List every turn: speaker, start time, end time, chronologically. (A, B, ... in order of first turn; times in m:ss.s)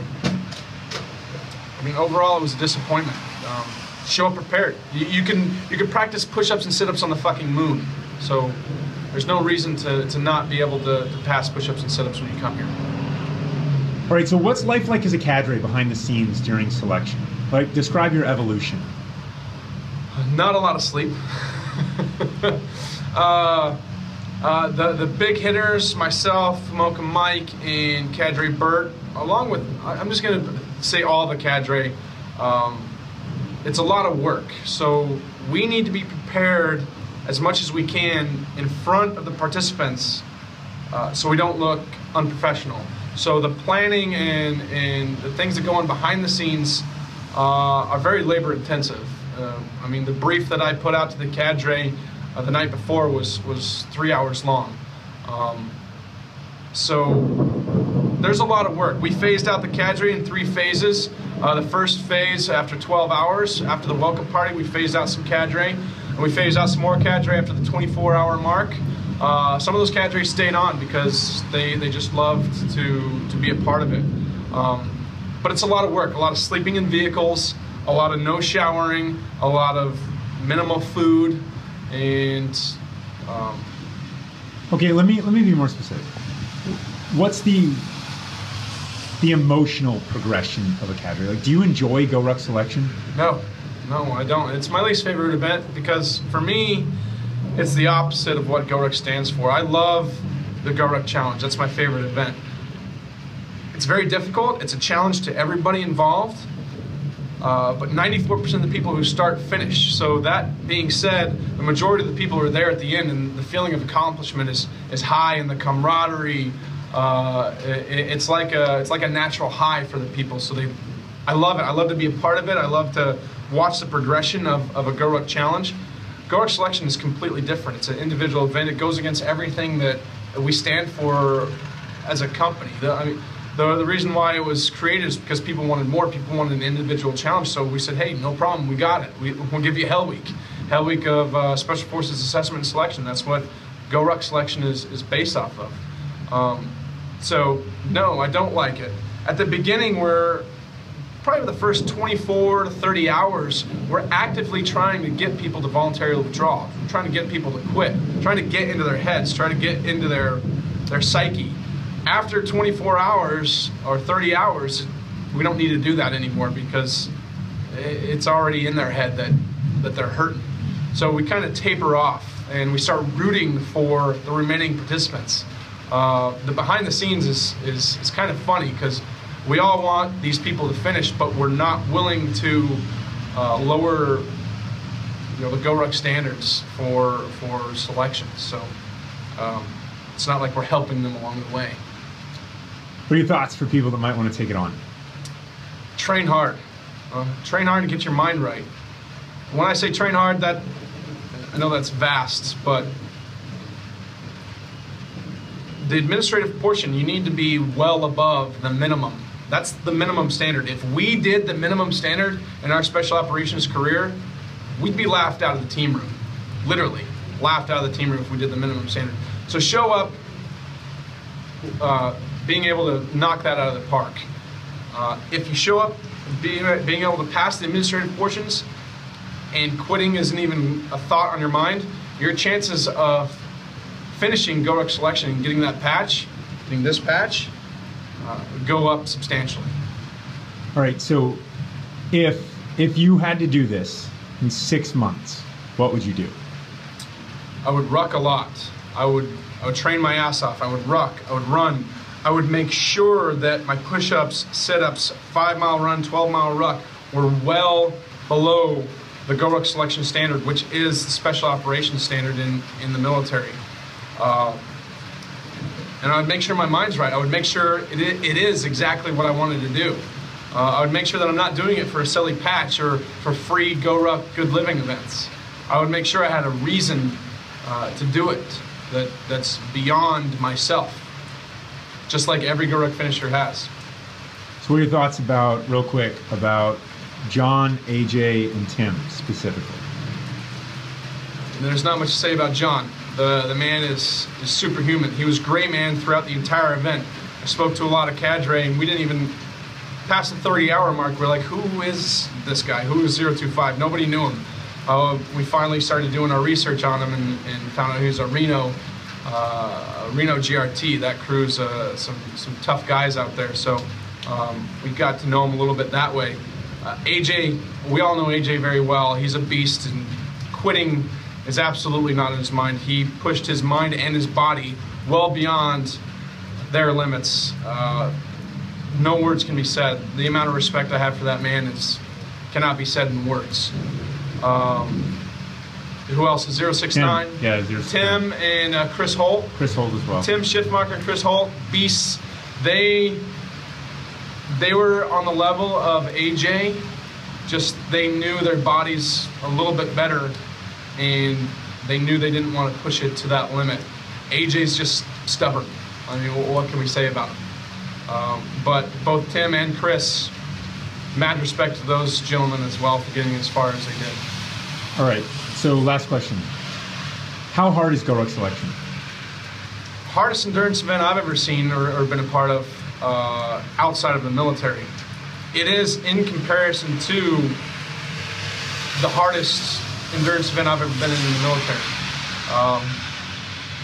0:01.8-0:08.6 A
0:09.1-0:12.7 A
0:14.1-0:18.9 B
0:20.1-0:22.6 A
0:23.1-0:23.8 A
0:24.4-0:32.9 A
0:33.6-0:40.2 A
0:40.9-0:55.7 A
0:56.7-0:57.4 A
0:58.2-1:23.7 A
1:24.7-1:26.1 B
1:26.7-1:27.8 B
1:29.2-1:32.9 B
1:33.1-1:36.9 A
1:37.5-1:42.4 A
1:43.7-1:46.5 A
1:47.4-2:00.7 A
2:01.2-2:05.7 A
2:06.3-2:30.4 A
2:31.2-2:47.1 A
2:47.7-3:02.8 A
3:03.3-3:04.3 A
3:05.4-3:08.7 A
3:09.4-3:11.8 A
3:13.1-3:14.8 B
3:16.0-3:16.6 A
3:17.1-3:18.7 A
3:19.5-3:20.6 A
3:21.3-3:22.9 A
3:25.8-3:34.2 A
3:34.8-3:40.2 A
3:41.8-3:44.2 A
3:44.9-3:48.6 A
3:49.5-3:53.4 A
3:54.1-3:57.5 A
3:58.2-3:59.7 A
4:00.7-4:01.4 B
4:02.1-4:06.3 B
4:07.6-4:23.6 A
4:24.2-4:24.6 A
4:26.0-4:41.1 A
4:42.1-4:43.7 A
4:44.6-4:49.8 B
4:51.5-4:59.3 A
5:00.0-5:26.0 A
5:26.7-5:28.1 A
5:28.9-5:33.7 A
5:34.4-5:35.1 A
5:36.1-5:39.6 A
5:36.9-5:38.2 B
5:39.6-5:40.3 B
5:40.2-5:43.2 A
5:44.5-5:46.8 A
5:47.4-5:50.3 A
5:51.0-5:57.4 A
5:58.1-6:00.3 A
6:01.1-6:04.2 A
6:05.0-6:06.5 B
6:07.5-6:08.8 B
6:10.0-6:14.9 A
6:15.5-6:17.6 A
6:18.9-6:21.9 A
6:22.5-6:23.0 A